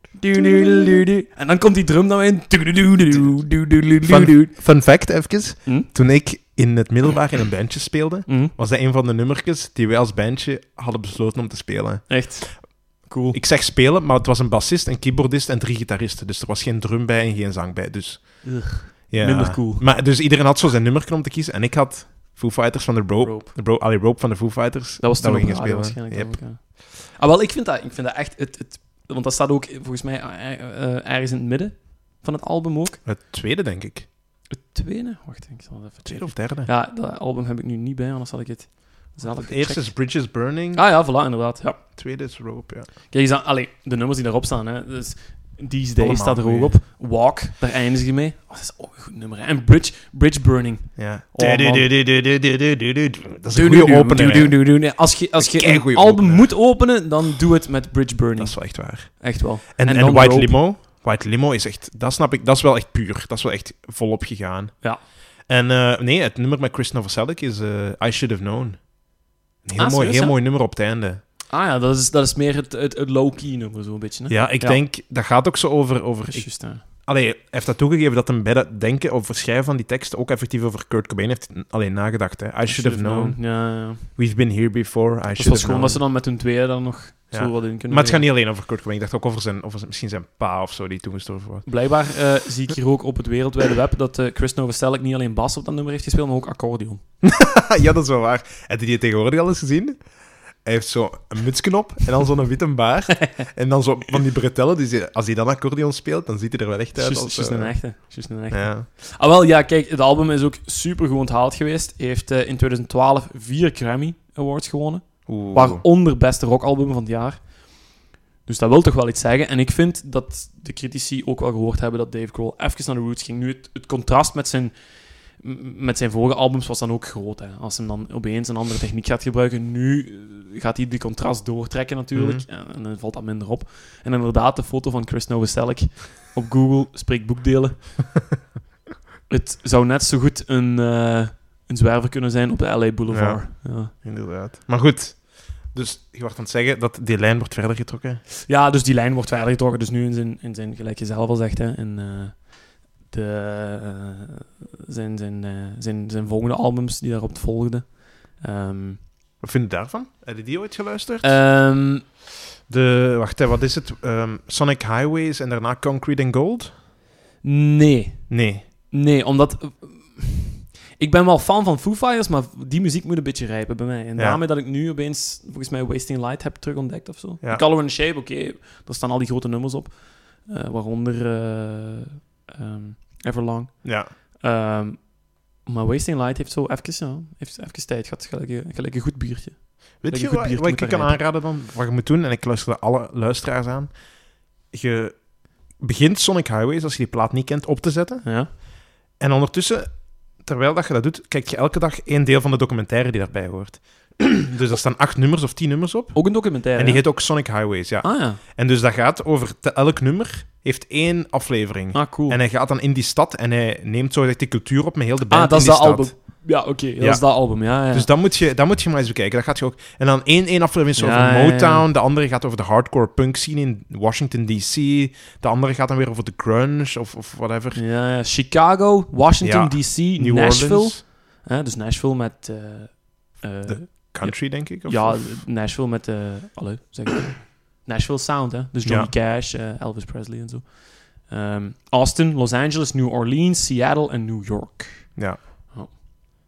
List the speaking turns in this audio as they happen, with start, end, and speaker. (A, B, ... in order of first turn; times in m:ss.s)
0:00.2-0:04.5 A
0:00.3-0:01.0 B
0:04.0-0:12.8 B
0:08.3-0:08.5 A
0:12.1-0:13.4 A
0:13.3-0:26.4 B
0:18.4-0:19.9 A
0:23.2-0:23.5 A
0:25.0-0:33.0 A
0:33.0-0:34.1 B
0:34.5-0:40.0 A
0:36.0-0:36.7 B
0:39.2-0:40.8 B
0:40.7-0:41.8 A
0:42.0-0:42.9 B
0:43.1-0:51.9 A
0:46.0-0:46.7 B
0:51.0-0:54.6 B
0:53.5-1:00.6 A
0:55.4-0:56.5 B
0:58.4-1:04.7 B
1:05.5-1:08.9 B
1:09.6-1:11.2 B
1:09.7-1:10.4 A
1:11.5-1:14.8 A
1:14.3-1:26.0 B
1:16.3-1:16.8 A
1:22.6-1:24.1 A
1:25.4-1:28.2 A
1:27.3-1:31.7 B
1:31.6-1:37.0 A
1:37.2-1:40.0 B
1:40.6-1:47.8 B
1:46.9-1:57.5 A
1:48.5-1:48.9 B
1:55.2-1:55.8 B
1:58.4-2:04.7 A
2:05.4-2:17.9 A
2:12.1-2:12.4 B
2:19.3-2:23.9 A
2:23.1-2:28.2 B
2:28.4-2:39.0 A
2:39.4-2:41.4 B
2:41.2-2:42.0 A
2:42.7-2:46.7 B
2:47.4-3:11.2 A
2:48.3-2:48.6 B
3:03.8-3:04.1 B
3:10.0-3:13.9 B
3:14.7-3:15.2 B
3:15.7-3:18.6 B
3:18.2-3:18.5 A
3:19.2-3:36.4 B
3:26.1-3:27.0 A
3:28.0-3:28.4 A
3:31.9-3:32.4 A
3:35.3-3:38.1 A
3:37.0-3:47.8 B
3:41.0-3:41.9 A
3:47.7-4:05.2 A
3:49.4-3:51.0 B
3:53.6-3:55.4 B
3:58.8-3:59.1 B
4:05.2-4:05.4 B